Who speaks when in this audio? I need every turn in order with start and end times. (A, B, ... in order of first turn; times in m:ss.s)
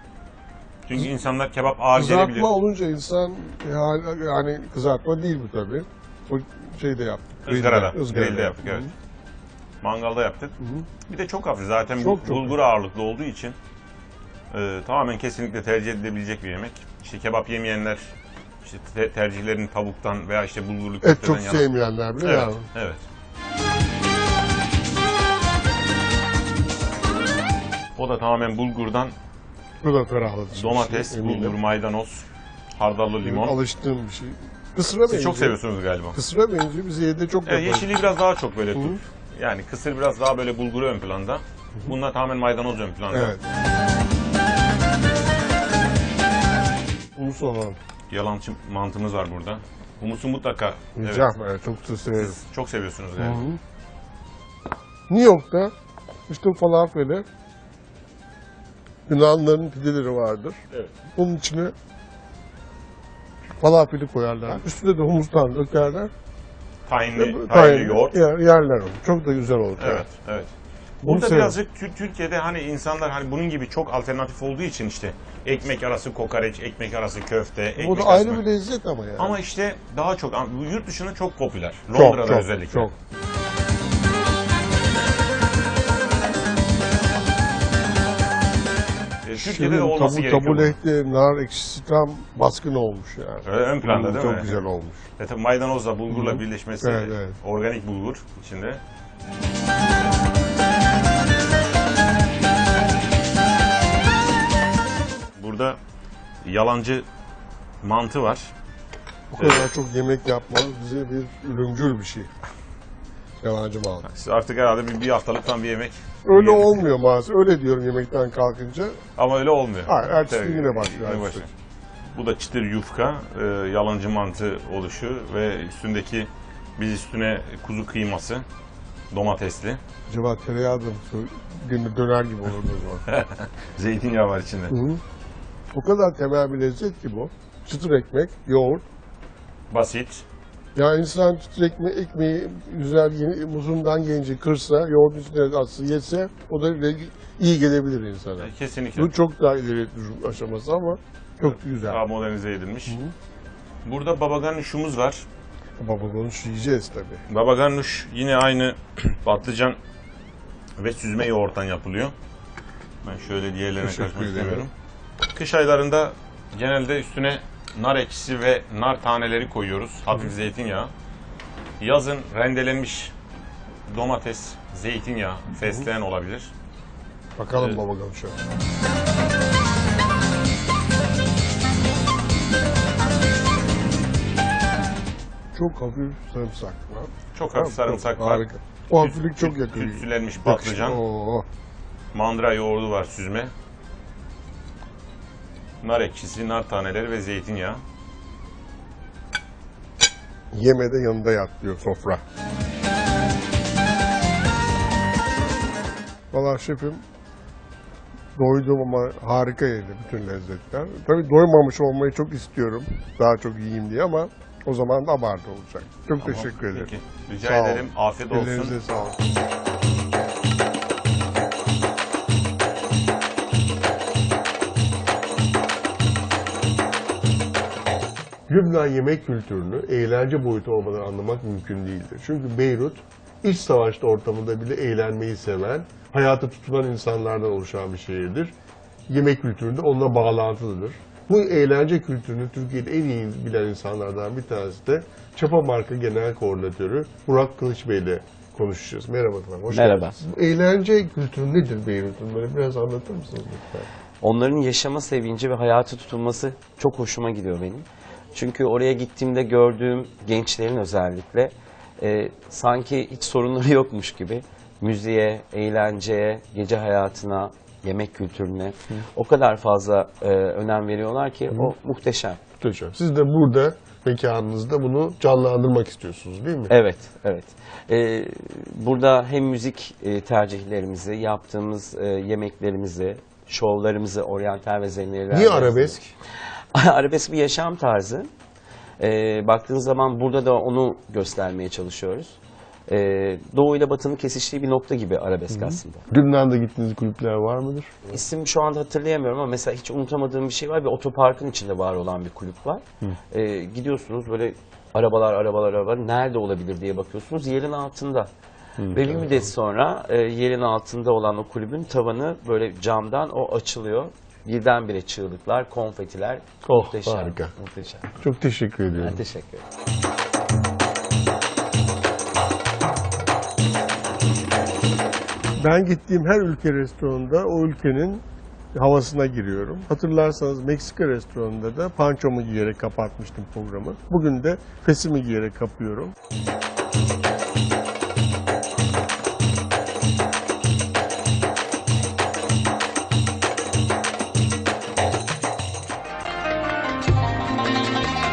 0:00.9-0:02.5 A
0:02.0-0:08.9 B
0:07.5-0:08.9 A
0:09.8-0:13.6 A
0:10.6-0:10.9 B
0:12.0-0:12.6 B
0:14.5-0:21.7 A
0:21.0-0:22.7 B
0:22.2-0:23.0 A
0:28.0-0:29.1 A
0:29.8-0:31.6 B
0:30.6-0:33.6 A
0:33.2-0:35.6 B
0:35.0-0:36.2 A
0:36.1-0:37.9 B
0:37.5-0:43.4 A
0:38.7-0:39.0 B
0:43.1-0:43.4 B
0:47.2-0:47.8 B
0:48.1-0:51.3 A
0:51.0-0:52.4 B
0:52.2-0:53.4 A
0:53.2-0:53.6 B
0:55.1-0:55.7 B
0:56.3-0:57.2 B
0:59.1-1:00.6 B
1:01.2-1:01.7 B
1:03.6-1:06.1 B
1:06.9-1:08.2 A
1:07.2-1:10.0 B
1:09.8-1:10.5 A
1:11.0-1:11.6 B
1:11.0-1:18.4 A
1:17.8-1:19.4 B
1:19.2-1:22.9 A
1:21.9-1:22.9 B
1:29.2-1:30.8 A
1:29.3-1:35.0 B
1:33.4-1:34.6 A
1:35.2-1:38.8 A
1:36.1-1:37.4 B
1:45.4-1:45.8 A
1:46.4-1:47.1 A
1:47.8-1:48.5 A
1:49.3-1:52.3 B
1:49.4-1:49.7 A
1:53.4-1:54.1 B
1:54.0-1:56.8 A
1:56.3-1:59.0 B
1:59.2-2:01.5 A
1:59.9-2:01.5 B
2:02.1-2:08.4 A
2:09.1-2:09.8 A
2:10.1-2:13.0 B
2:13.1-2:14.8 A
2:14.7-2:15.0 B
2:15.7-2:18.8 B
2:19.7-2:20.2 A
2:20.8-2:32.0 B
2:28.4-2:29.2 A
2:31.5-2:33.0 A
2:32.9-2:33.1 B
2:33.8-2:35.2 A
2:35.8-2:37.2 B
2:37.3-2:39.8 A
2:40.8-2:42.1 A
2:43.0-2:44.7 A
2:43.8-2:44.7 B
2:45.3-2:50.9 A
2:51.8-2:53.1 A
2:53.9-2:56.5 A
2:57.4-2:58.4 B
3:05.5-3:11.5 B
3:07.3-3:11.0 A
3:12.1-3:13.5 A
3:15.8-3:17.8 A
3:20.5-3:22.2 B
3:26.3-3:27.0 B
3:28.4-3:36.9 B
3:36.2-3:38.8 A
3:37.4-3:39.2 B
3:48.5-3:58.5 B
3:59.1-4:13.9 B
4:09.7-4:10.2 C
4:14.2-4:32.4 C
4:32.6-4:36.8 B
4:36.7-4:46.1 C
4:45.3-4:46.0 B
4:46.7-4:48.3 C
4:49.0-4:52.4 C
4:52.9-4:56.0 C
4:55.5-4:58.2 B
4:58.1-5:08.3 C
5:08.8-5:09.5 B
5:08.8-5:18.2 C
5:16.6-5:17.5 B
5:18.2-5:19.2 B
5:19.0-5:19.6 C
5:25.6-5:28.2 B
5:28.7-5:36.2 B